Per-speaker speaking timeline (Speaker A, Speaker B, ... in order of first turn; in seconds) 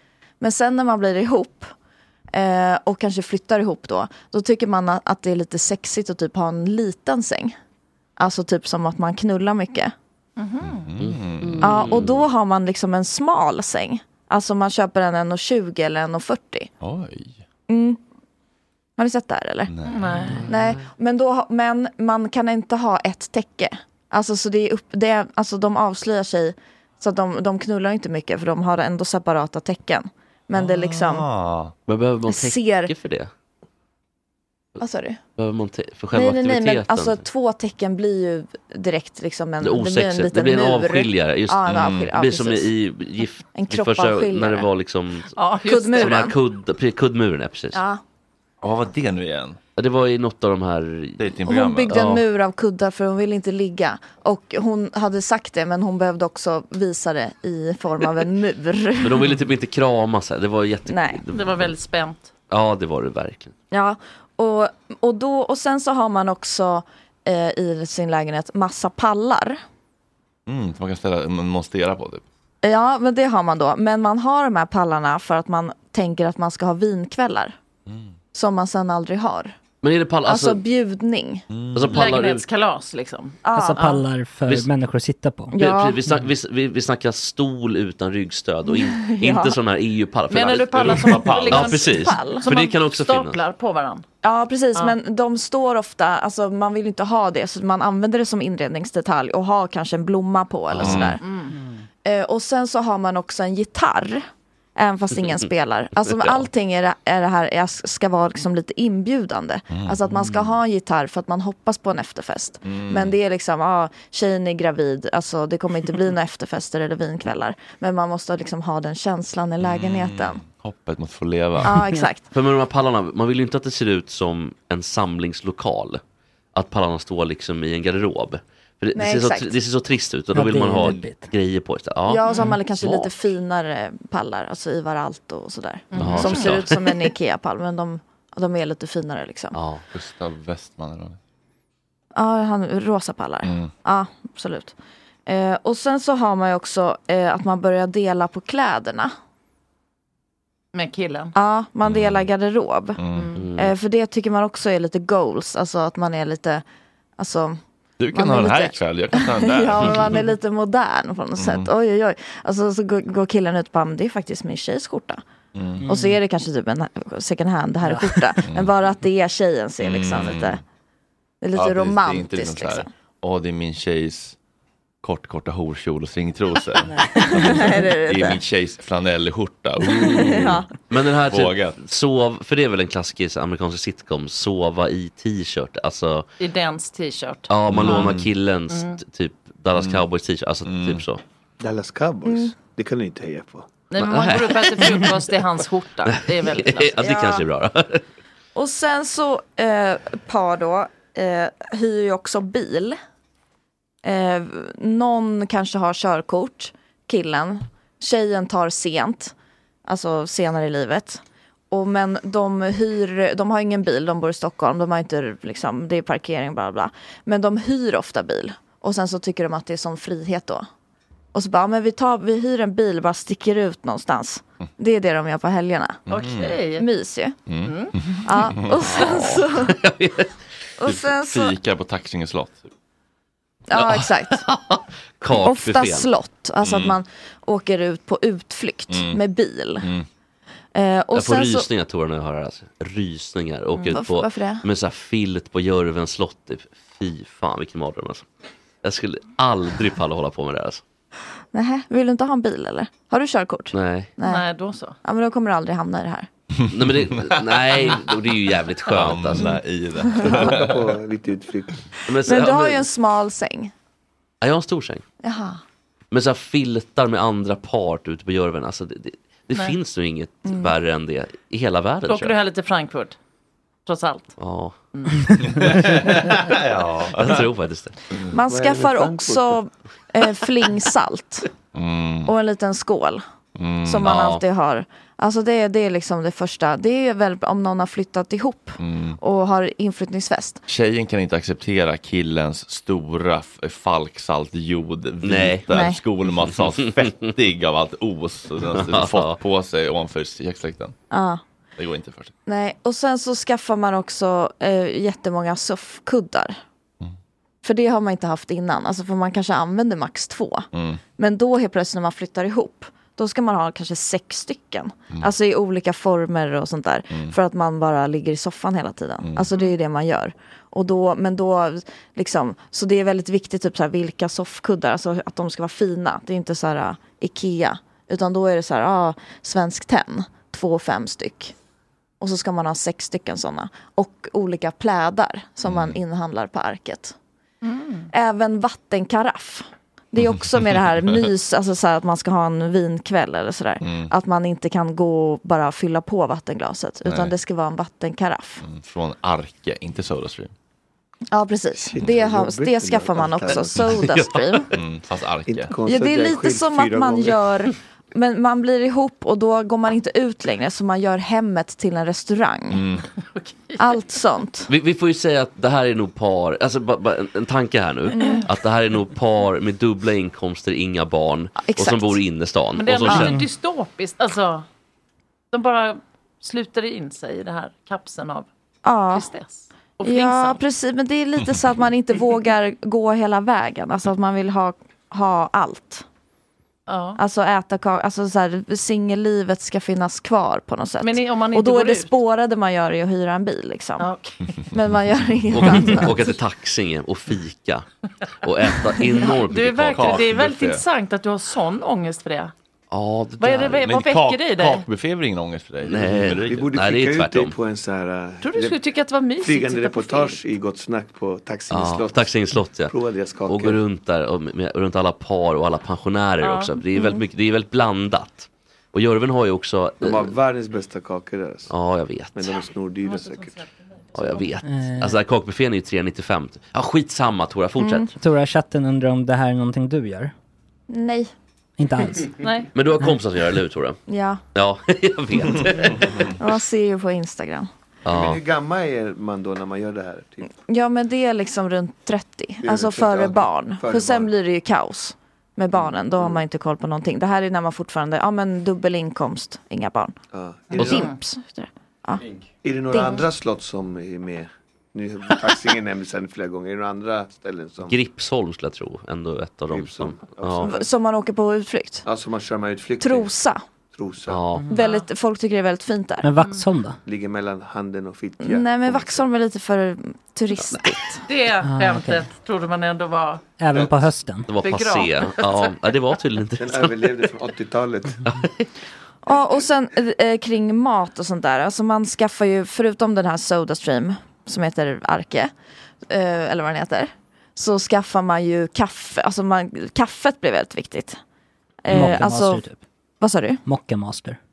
Speaker A: 0.4-1.7, 2.3-7.5, 8.2-9.9, 11.6-16.7, 17.7-18.0, 19.0-19.7, 20.5-31.2, 32.3-32.9, 34.8-35.2, 36.1-42.7, 43.5-44.7, 45.6-46.3, 47.7-48.0, 51.5-59.2, 60.9-61.2, 63.7-69.6, 72.6-77.5, 78.3-79.5, 80.2-81.5, 83.4-83.8, 85.5-86.0, 88.7-89.5, 91.9-92.5, 94.2-101.2, 102.0-104.2, 104.8-120.4, 121.6-122.2, 128.9-129.5, 132.1-139.6, 142.2-144.7, 145.3-149.1, 151.3-153.0, 153.6-156.6, 157.2-157.6, 158.1-165.2, 165.9-170.6, 171.4-172.9, 177.3-178.4, 180.0-180.7, 192.2-192.5, 197.0-197.4, 198.5-203.0, 204.0-209.3, 209.8-220.6, 221.3-226.0, 226.7-227.4, 228.2-229.7, 230.8-231.6, 233.7-234.4, 235.3-239.9, 240.7-241.7, 243.9-244.6, 251.5-254.4, 255.0-256.3, 260.0-260.5, 262.2-263.7, 265.2-265.6, 270.4-270.7, 278.3-281.5, 282.2-283.2, 283.8-290.6, 295.7-296.0, 301.1-301.4, 302.5-306.6, 307.6-331.5, 332.2-337.1, 338.1-348.6, 351.3-354.7, 355.8-362.8, 363.8-364.7, 368.2-368.4, 371.6-372.2, 378.8-379.3, 380.0-386.0, 387.2-394.1, 394.7-396.2, 427.8-428.1, 430.9-431.3, 434.1-434.4, 436.4-437.7, 440.6-450.1, 450.8-452.2, 452.9-453.2, 460.6-462.0, 463.0-463.6, 464.7-466.3, 468.4-471.1, 479.2-485.5, 486.1-491.2, 491.8-492.6, 493.2-493.6
Speaker B: 10.4-10.9, 19.9-20.4, 45.4-46.3, 61.3-62.3, 81.9-84.0, 90.3-94.0, 101.2-101.5, 132.2-132.5, 135.9-136.6, 150.7-151.3, 153.1-153.4, 186.4-188.1, 188.7-189.0, 193.9-196.9, 226.1-226.9, 227.6-227.9, 254.2-254.9, 272.1-273.1, 273.9-274.3, 274.9-275.3, 337.6-338.1, 363.2-364.1, 372.7-374.6, 375.5-378.5, 379.1-380.6, 386.9-387.2, 391.0-392.1, 394.0-394.5, 399.0-402.5, 403.4-404.9, 408.4-410.4, 416.4-416.8, 423.0-424.5, 432.4-432.7, 450.7-451.2, 464.7-465.1, 466.4-466.6, 471.2-473.4, 474.6-475.7
Speaker C: 10.6-11.8, 16.8-17.4, 19.7-20.0, 30.5-31.7, 41.7-42.1, 48.6-49.6, 51.2-52.0, 70.5-72.2, 77.9-78.1, 81.5-82.1, 90.5-91.8, 100.7-101.2, 109.7-110.5, 112.6-113.2, 119.6-121.8, 139.9-141.2, 143.4-143.7, 151.8-152.3, 153.0-153.3, 158.0-160.2, 161.4-161.7, 165.5-165.9, 168.5-168.7, 169.8-170.6, 171.5-174.3, 175.0-180.6, 181.3-181.7, 187.7-188.3, 189.7-190.1, 190.6-191.0, 226.1-226.6, 227.5-228.8, 230.8-232.7, 236.6-237.0, 238.9-239.2, 256.6-257.9, 258.9-260.9, 275.5-277.4, 281.7-282.3, 283.6-284.0, 288.8-289.2, 290.7-300.9, 301.8-302.3, 310.7-311.0, 335.6-336.0, 340.2-341.1, 343.8-344.1, 347.0-347.3, 348.6-350.5, 354.7-355.7, 362.7-363.0, 399.9-400.8, 403.8-406.6
Speaker D: 11.0-12.2, 20.2-20.9, 31.9-33.3, 35.4-37.2, 39.6-45.4, 45.9-47.8, 49.8-51.2, 51.9-52.2, 59.0-61.7, 62.5-63.5, 79.8-80.6, 81.7-82.5, 85.5-93.4, 100.8-101.1, 106.1-106.5, 122.3-126.0, 126.5-133.3, 135.9-136.9, 139.5-139.8, 153.3-153.7, 180.1-186.2, 187.5-191.2, 193.9-195.2, 196.0-198.0, 228.7-230.3, 233.7-236.1, 241.1-248.2, 248.8-250.8, 253.7-254.1, 256.7-259.6, 262.1-262.9, 264.4-265.0, 266.1-272.4, 274.4-274.7, 277.2-278.0, 284.0-284.4, 295.2-295.6, 298.7-299.4, 353.9-354.6, 364.7-373.4, 395.5-397.8, 398.4-400.2, 402.9-403.8, 405.8-407.6, 411.7-412.9, 413.5-420.4, 421.7-422.7, 424.1-428.1, 432.7-434.0, 434.5-436.3, 438.0-438.4, 457.9-460.7, 464.2-464.6, 470.6-470.9, 474.5-477.2, 478.2-478.6
Speaker E: 83.5-85.5, 130.3-131.3, 165.8-166.2, 167.9-168.2, 373.1-373.4, 424.6-425.2, 428.2-430.3, 431.8-432.3, 466.2-467.0, 471.6-472.2, 473.6-474.5, 491.9-492.8, 493.6-494.4
Speaker F: 191.6-193.7, 260.2-261.8, 278.5-279.6, 351.7-353.8, 355.5-357.4, 406.5-408.8, 409.4-412.4, 412.9-413.8, 420.0-421.7, 422.3-423.6, 438.1-440.5, 442.6-444.3, 445.7-446.4, 450.3-451.1, 452.6-458.0, 459.7-460.9, 462.0-463.3, 463.9-464.4, 467.1-469.3, 476.6-478.2